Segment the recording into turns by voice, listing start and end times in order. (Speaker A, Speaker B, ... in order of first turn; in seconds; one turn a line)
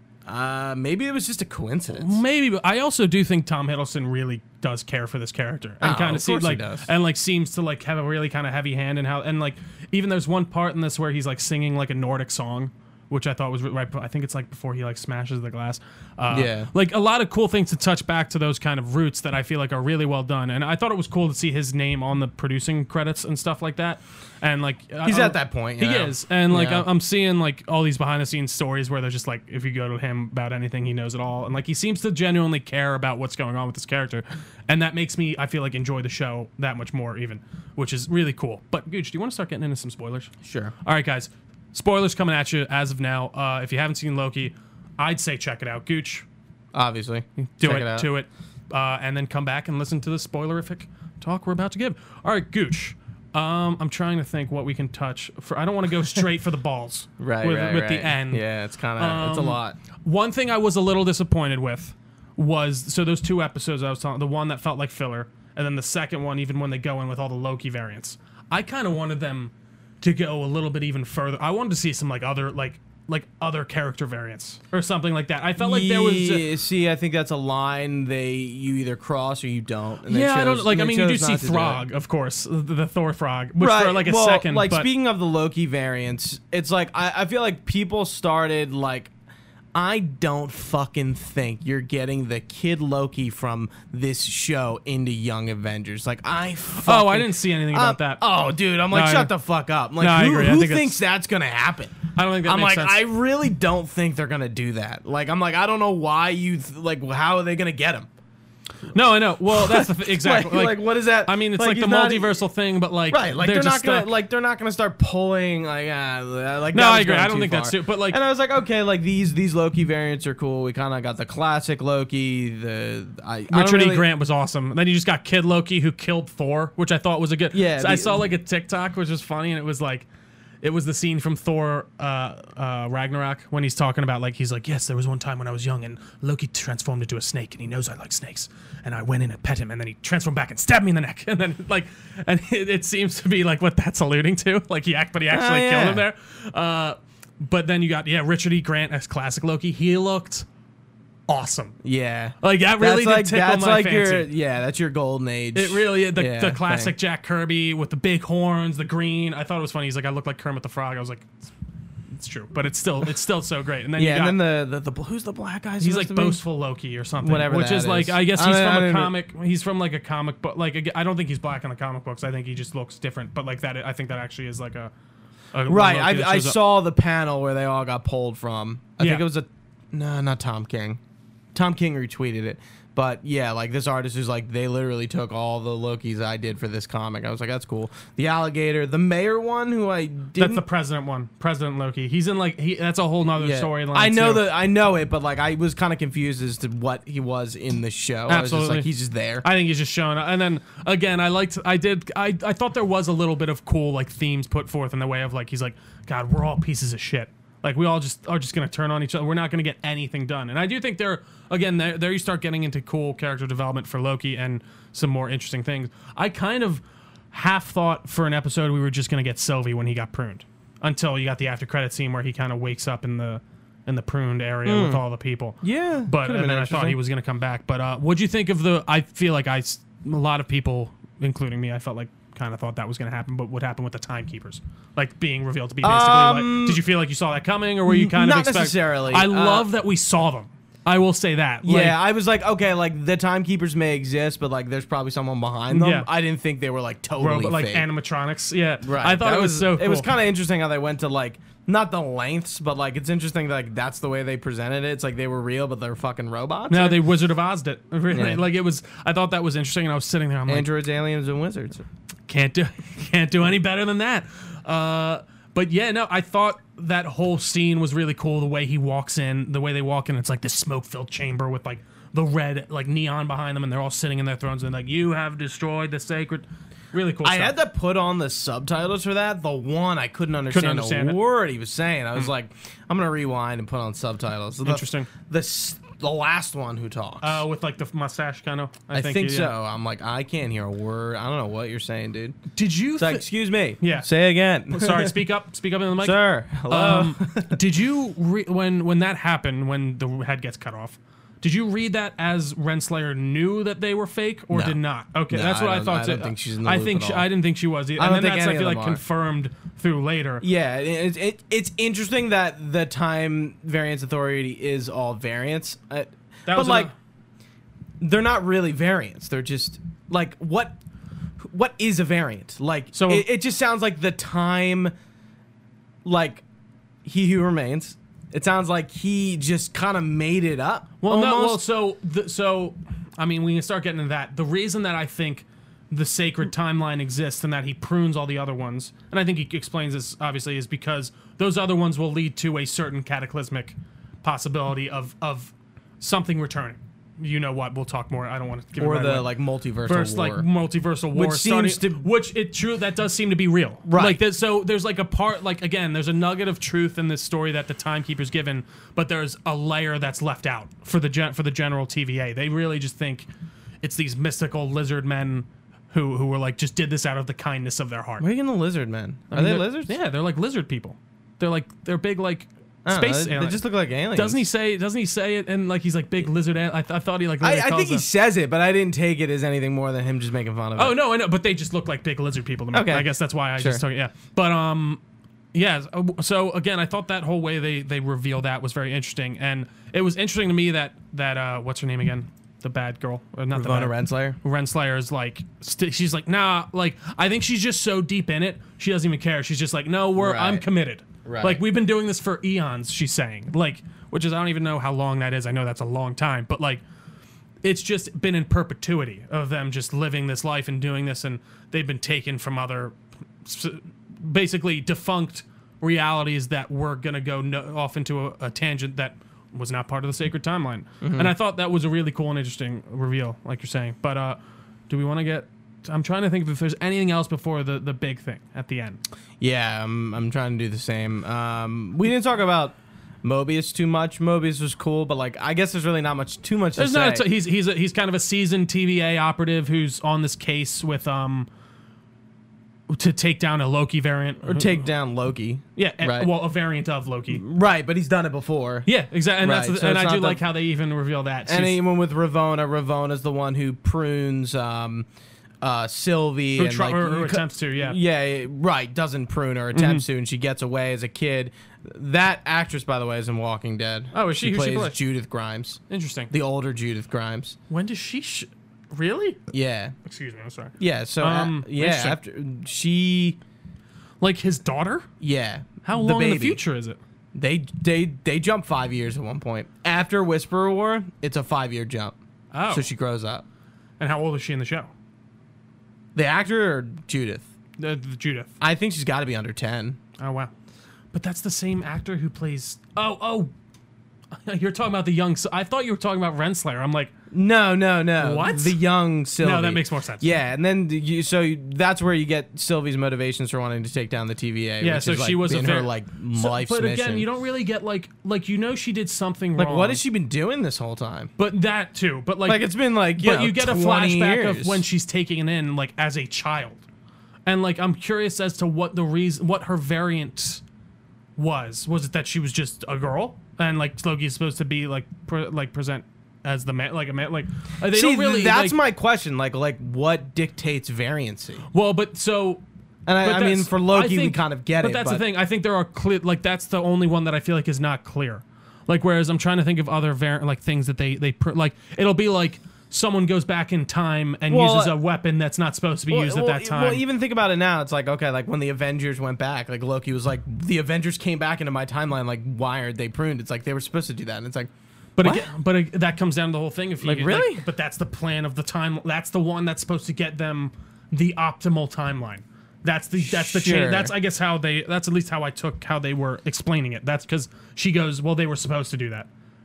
Speaker A: 0.3-2.2
Speaker B: 1.9-40.3
Speaker A: 5.8-6.9
Speaker A: 16.3-16.7
Speaker A: 25.0-26.9
Speaker A: 40.4-40.7
Speaker B: 40.8-46.2
Speaker A: 46.7-48.1
Speaker B: 47.4-58.4
Speaker A: 57.2-59.8
Speaker B: 59.0-76.5
Speaker A: 75.6-81.8
Speaker B: 80.1-84.9
Speaker A: 83.6-89.1
Speaker A: 89.7-108.1
Speaker B: 96.8-98.2
Speaker B: 98.9-99.3
Speaker B: 100.0-101.0
Speaker B: 102.2-103.0
Speaker B: 108.9-114.1
Speaker A: 109.5-112.4
Speaker A: 113.1-124.1
Speaker B: 116.7-118.2
Speaker B: 123.5-130.1
Speaker A: 127.5-128.3
Speaker B: 130.6-150.5
Speaker A: 145.3-146.1
Speaker B: 151.3-151.8
Speaker A: 151.8-156.9
Speaker B: 152.4-154.3
Speaker B: 155.6-161.3
Speaker B: 162.1-164.4
Speaker A: 164.0-166.4
Speaker B: 165.8-174.9
Speaker A: 167.2-169.1
Speaker B: 175.5-176.6
Speaker A: 175.7-181.0
Speaker A: 181.5-190.6
Speaker B: 190.4-194.5
Speaker A: 193.3-199.4
Speaker B: 198.3-198.9
Speaker B: 199.4-242.0
Speaker A: 224.7-225.0
Speaker A: 225.6-227.0
Speaker A: 235.8-236.8
Speaker A: 237.9-239.7
Speaker A: 241.6-247.9
Speaker B: 245.7-246.1
Speaker B: 247.2-250.1
Speaker A: 248.8-257.0
Speaker B: 256.7-260.7
Speaker A: 258.1-258.4
Speaker A: 260.5-261.9
Speaker B: 262.3-277.6
Speaker A: 277.2-287.4
Speaker B: 280.5-281.2
Speaker B: 284.6-285.1
Speaker B: 287.2-289.5
Speaker A: 288.9-292.4
Speaker B: 292.5-293.2
Speaker A: 293.0-295.1
Speaker B: 293.8-294.1
Speaker B: 294.7-310.4
Speaker A: 296.0-297.6
Speaker A: 304.5-304.8
Speaker A: 305.3-307.3
Speaker A: 308.0-309.0
Speaker A: 310.4-316.9
Speaker B: 316.5-316.9
Speaker A: 318.0-320.8
Speaker A: 321.4-324.9
Speaker B: 322.9-323.2
Speaker A: 326.1-326.4
Speaker A: 327.1-331.6
Speaker B: 331.0-349.3
Speaker A: 348.8-350.5
Speaker B: 349.9-363.3
Speaker A: 351.1-352.1
Speaker A: 353.9-354.2
Speaker B: 363.8-368.3
Speaker A: 368.2-370.0
Speaker B: 369.3-373.6
Speaker A: 372.9-374.5
Speaker B: 374.1-378.1
Speaker A: 377.4-380.9
Speaker B: 380.8-385.0
Speaker A: 382.7-383.8
Speaker B: 385.5-406.8
Speaker A: 393.5-394.4
Speaker A: 400.2-400.6
Speaker A: 401.2-401.6
Speaker B: 407.6-424.4
Speaker A: 421.0-421.3
Speaker B: 424.9-429.0
Speaker A: 429.4-437.3
Speaker B: 436.8-441.5
Speaker B: 442.9-444.8
Speaker A: 444.4-446.3
Speaker B: 445.8-447.4
Speaker A: 447.3-448.9
Speaker B: 448.9-451.8
Speaker A: 449.4-450.4
Speaker A: 451.5-455.1
Speaker A: 455.6-467.6
Speaker B: 456.6-458.0
Speaker B: 459.7-460.0
Speaker B: 464.1-465.0
Speaker B: 465.9-466.3
Speaker B: 467.7-469.4
Speaker A: 469.5-469.9
Speaker B: 470.0-472.2
Speaker A: 470.8-473.4
Speaker B: 474.2-475.1
Speaker A: 475.2-476.6
Speaker B: 475.8-477.0
Speaker A: 477.4-482.2
Speaker B: 482.5-482.9
Speaker A: 482.7-483.4
Speaker B: 484.0-484.9
Speaker A: 486.1-487.4
Speaker B: 487.8-488.5
Speaker A: 488.6-490.0
Speaker B: 490.2-490.5
Speaker B: 491.1-493.5
Speaker B: 494.4-497.1
Speaker A: 497.3-507.3
Speaker B: 498.2-498.8
Speaker B: 499.4-500.3
Speaker B: 504.8-510.0
Speaker A: 509.6-511.3
Speaker B: 511.4-516.8
Speaker A: 512.5-514.9
Speaker B: 517.5-520.6
Speaker B: 521.4-528.8
Speaker A: 527.9-531.7
Speaker B: 531.7-532.6
Speaker A: 533.1-535.2
Speaker B: 533.2-547.0
Speaker A: 544.5-545.0
Speaker A: 546.1-555.5
Speaker B: 555.2-569.3
Speaker A: 557.0-557.6
Speaker A: 563.2-564.1